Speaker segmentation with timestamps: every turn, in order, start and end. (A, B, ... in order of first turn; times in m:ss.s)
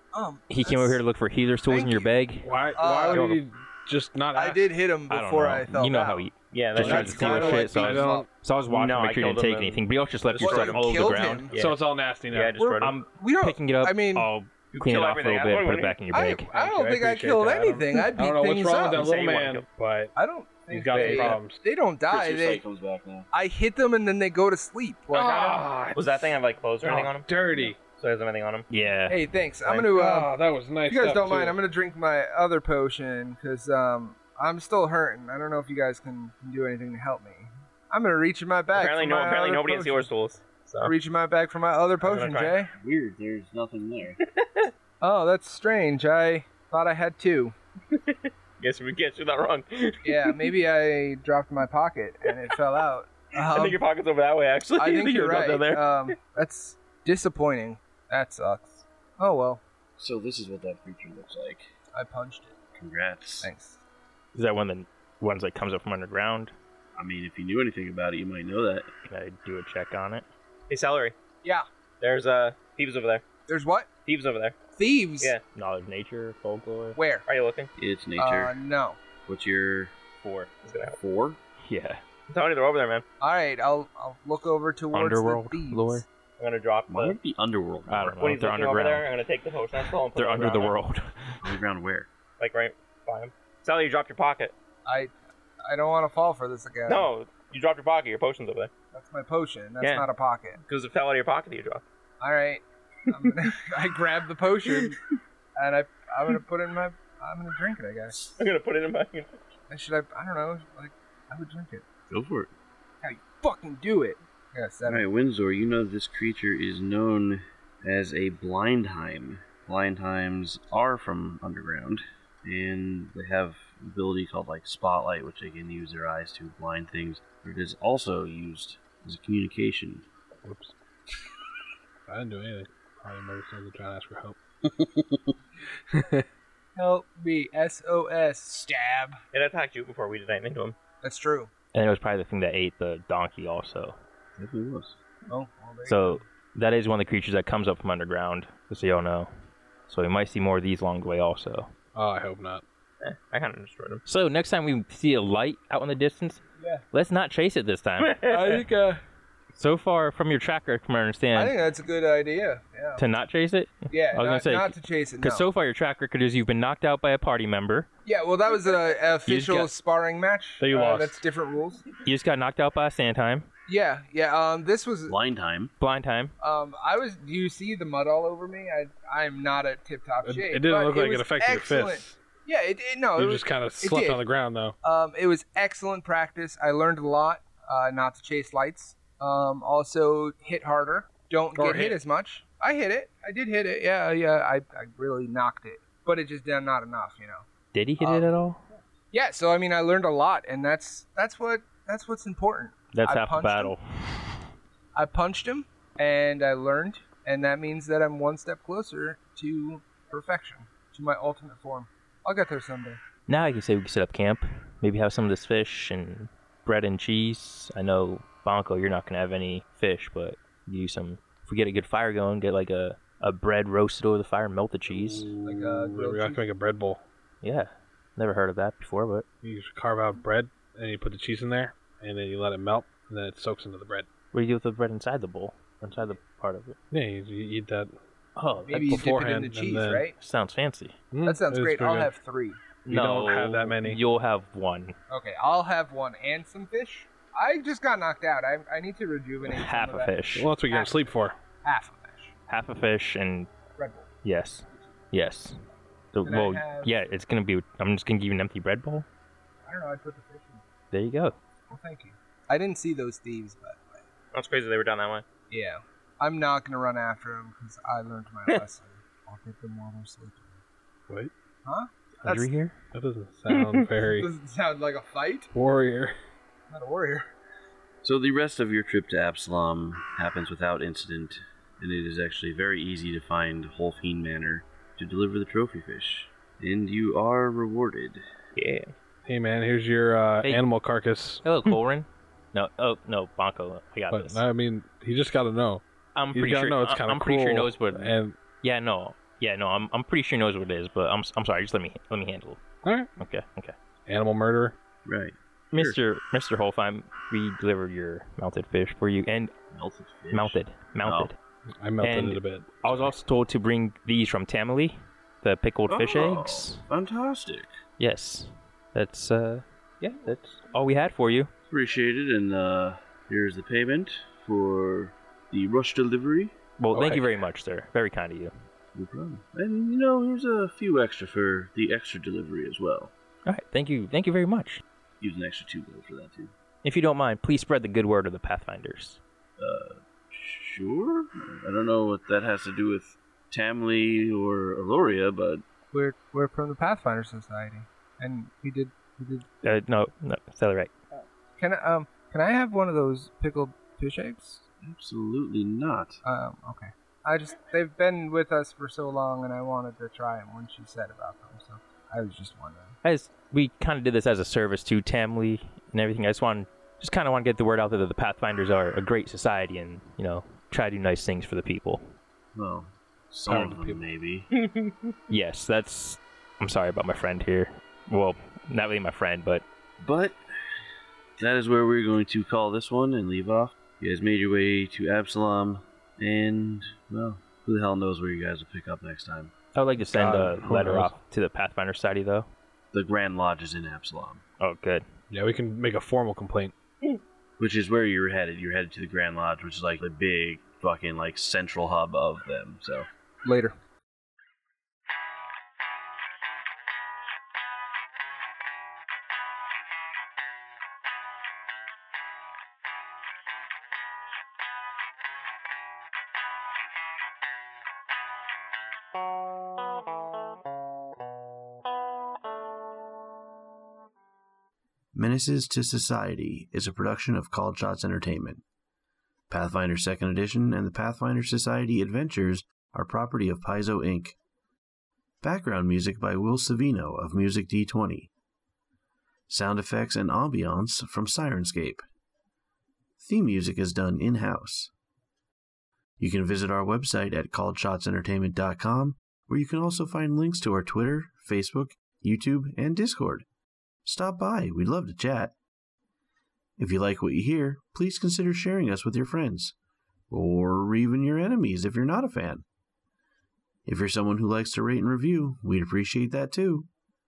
0:00.1-0:01.0 A
0:00.5-0:02.5 B
0:01.7-0:02.1 A
0:02.4-0:04.7 C
0:02.7-0:03.3 A
0:04.4-0:06.3 A
0:05.1-0:11.5 B
0:06.5-0:07.6 D
0:06.8-0:08.3 C
0:06.8-0:08.3 A
0:08.7-0:11.8 D
0:10.4-0:11.5 A
0:11.5-0:12.6 C
0:12.3-0:13.0 D
0:12.6-0:14.3 A
0:12.8-0:16.8 B
0:14.7-0:16.0 D
0:16.1-0:19.1 A
0:16.6-0:20.1 C
0:19.0-0:19.6 D
0:20.1-0:22.6 A
0:20.7-0:21.6 C
0:20.9-0:21.4 D
0:22.1-0:23.3 E
0:23.3-0:25.6 A
0:25.1-0:27.8 C
0:25.9-0:27.3 D
0:27.8-0:28.7 D
0:28.7-0:29.2 B
0:29.1-0:30.3 A
0:29.7-0:31.6 C
0:30.9-0:40.1 A
0:38.7-0:40.9 D
0:40.8-0:42.7 A
0:42.0-0:42.6 D
0:42.7-0:44.2 E
0:44.2-0:44.7 D
0:45.0-0:47.5 A
0:47.9-0:50.4 D
0:50.0-0:53.8 A
0:52.3-0:52.6 D
0:53.4-0:56.1 D
0:54.8-0:59.6 A
1:00.0-1:01.7 E
1:01.9-1:02.6 A
1:02.8-1:03.5 E
1:03.4-1:03.8 A
1:04.3-1:06.5 B
1:07.0-1:08.9 E
1:09.1-1:10.3 B
1:10.7-1:11.1 D
1:12.0-1:13.2 D
1:13.5-1:13.9 A
1:14.0-1:14.6 D
1:14.8-1:15.4 A
1:15.6-1:17.0 B
1:17.0-1:17.3 A
1:17.3-1:17.7 D
1:17.8-1:18.6 E
1:18.2-1:19.0 A
1:19.3-1:20.0 E
1:20.2-1:20.5 B
1:20.6-1:21.0 D
1:21.0-1:21.4 E
1:21.6-1:22.0 B
1:22.3-1:23.0 D
1:23.2-1:26.0 A
1:24.9-1:26.0 B
1:26.4-1:27.2 D
1:26.9-1:28.2 E
1:27.9-1:29.1 B
1:28.2-1:30.8 D
1:30.1-1:31.6 B
1:31.4-1:32.1 E
1:32.4-1:34.5 D
1:34.9-1:37.1 A
1:36.9-1:38.7 D
1:38.9-1:40.6 A
1:39.8-1:40.1 D
1:40.6-1:41.8 D
1:42.2-1:45.0 A
1:45.6-1:48.2 A
1:48.2-1:49.4 D
1:49.7-1:51.8 A
1:52.1-1:52.5 E
1:53.0-1:55.0 A
1:54.9-2:10.0 E
2:10.4-2:10.7 C
2:12.1-2:14.4 C
2:14.6-2:15.4 E
2:15.9-2:16.3 C
2:16.8-2:19.2 A
2:19.3-2:20.8 D
2:21.0-2:21.5 A
2:21.7-2:24.0 B
2:24.4-2:25.0 E
2:25.3-2:26.3 A
2:25.9-2:29.3 B
2:29.9-2:31.7 B
2:32.0-2:32.6 C
2:33.0-2:34.0 D
2:34.0-2:36.4 B
2:36.6-2:36.8 A
2:36.9-2:38.2 B
2:38.0-2:38.6 D
2:38.3-2:39.0 A
2:39.5-2:41.5 B
2:41.3-2:43.1 A
2:43.0-2:47.9 B
2:43.9-2:45.4 A
2:48.0-2:51.8 A
2:49.3-2:49.7 B
2:50.6-2:51.2 C
2:52.0-2:53.5 B
2:53.7-2:55.2 A
2:55.1-2:55.7 E
2:55.8-2:56.3 B
2:56.4-3:04.2 A
3:00.2-3:02.2 C
3:03.2-3:04.7 C
3:04.8-3:17.5 A
3:11.6-3:12.0 C
3:17.7-3:18.6 B
3:18.0-3:18.3 A
3:19.1-3:23.7 A
3:22.9-3:24.4 B
3:25.0-3:33.0 A
3:33.3-3:45.3 B
3:44.9-3:47.0 C
3:45.4-3:46.4 A
3:47.4-3:49.3 B
3:49.4-3:54.1 C
3:54.3-3:56.8 B
3:56.9-3:58.0 C
3:58.4-3:59.0 B
3:58.7-4:00.1 A
3:58.7-4:00.0 C
4:00.1-4:01.0 B
4:01.1-4:02.1 C
4:01.2-4:02.6 A
4:02.8-4:05.0 B
4:02.9-4:04.0 C
4:05.1-4:12.3 A
4:09.4-4:10.5 B
4:10.4-4:11.4 C
4:12.5-4:13.5 B
4:13.8-4:14.1 A
4:14.2-4:15.6 B
4:16.1-4:19.1 B
4:16.2-4:17.0 A
4:19.6-4:20.6 A
4:20.9-4:21.4 B
4:21.7-4:24.0 A
4:24.3-4:25.2 D
4:25.5-4:30.6 A
4:31.6-4:32.6 A
4:32.2-4:32.8 B
4:32.9-4:34.3 C
4:33.5-4:33.8 D
4:34.0-4:35.5 A
4:35.5-4:36.1 C
4:36.7-4:37.3 A
4:38.0-4:48.2 E
4:48.6-4:48.9 D
4:49.2-4:51.4 C
4:51.4-4:54.4 B
4:54.1-4:58.4 C
4:56.1-5:02.6 B
5:02.8-5:03.1 C
5:03.2-5:03.7 B
5:04.0-5:04.8 C
5:05.0-5:06.0 E
5:05.7-5:09.5 B
5:09.7-5:11.3 E
5:10.3-5:11.4 B
5:11.8-5:13.1 C
5:12.0-5:16.9 B
5:15.9-5:17.7 E
5:18.0-5:21.5 B
5:21.7-5:26.6 E
5:26.8-5:28.5 B
5:26.9-5:27.4 C
5:28.9-5:33.1 E
5:33.4-5:34.8 B
5:35.2-5:36.5 E
5:36.8-5:39.2 B
5:39.6-5:45.6 E
5:45.9-5:49.4 A
5:49.6-5:50.9 B
5:51.6-5:54.6 A
5:54.8-5:56.2 E
5:56.2-6:03.0 A
6:03.0-6:12.1 B
6:12.6-6:14.5 E
6:13.5-6:14.0 C
6:14.5-6:15.1 D
6:15.3-6:19.6 B
6:20.0-6:20.4 E
6:21.4-6:29.5 E
6:29.7-6:32.5 B
6:30.0-6:31.1 C
6:32.9-6:34.4 E
6:34.6-6:35.0 B
6:35.3-6:36.7 C
6:37.6-6:43.1 E
6:43.4-6:43.7 A
7:05.1-7:08.6 E
7:09.5-7:14.4 E
7:15.4-7:18.3 E
7:19.5-7:22.0 E
7:23.2-7:24.9 E
7:26.2-7:33.4 E
7:34.0-7:35.5 E
7:36.8-7:39.7 E
7:40.3-7:42.6 E
7:43.9-7:46.9 E